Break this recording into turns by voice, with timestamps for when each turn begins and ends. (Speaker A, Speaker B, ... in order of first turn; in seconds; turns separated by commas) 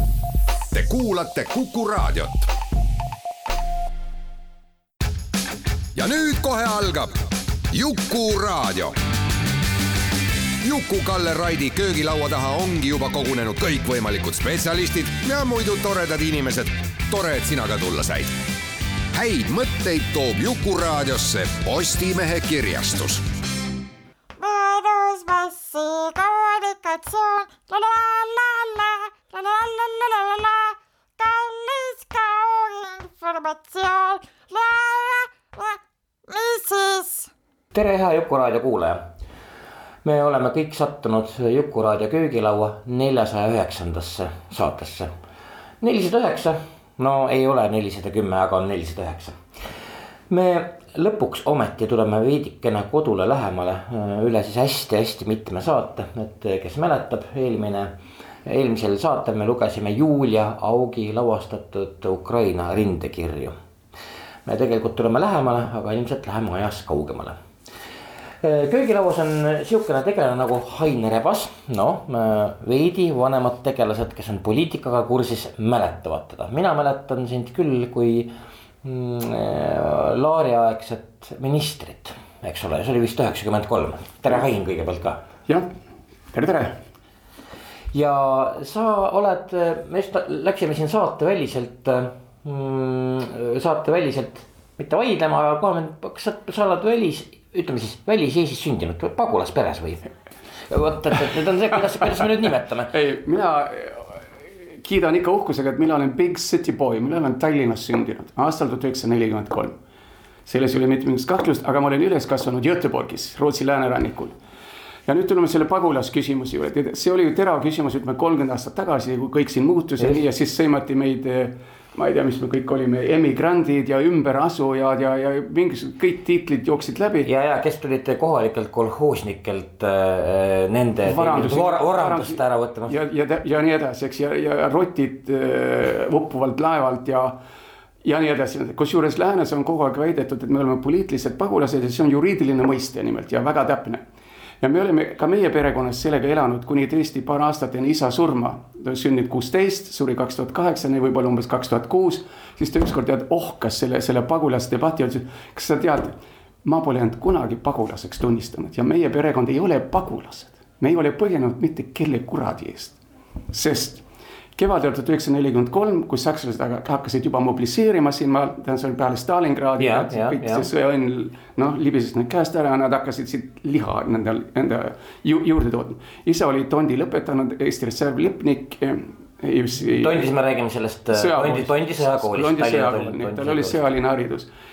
Speaker A: 0.7-2.5, Speaker A: 6.0-8.9, Speaker A: 10.6-18.3, Speaker A: 19.1-23.2, Speaker B: 24.4-37.3, Speaker C: 37.7-39.0, Speaker C: 40.0-45.1, Speaker C: 45.8-49.4, Speaker C: 50.3-57.9, Speaker C: 58.5-63.6, Speaker C: 64.5-67.4, Speaker C: 68.4-85.2, Speaker D: 86.3-86.8, Speaker C: 87.9-100.1, Speaker C: 100.7-102.9, Speaker D: 102.0-102.3, Speaker D: 102.9-104.1, Speaker D: 104.7-109.8, Speaker D: 110.5-114.4, Speaker D: 115.1-127.3, Speaker C: 127.2-133.0, Speaker D: 131.1-137.4, Speaker D: 138.0-144.0, Speaker D: 144.6-163.0, Speaker D: 163.5-164.0, Speaker D: 164.6-180.3, Speaker C: 169.8-170.7, Speaker C: 179.9-183.8, Speaker D: 181.1-184.5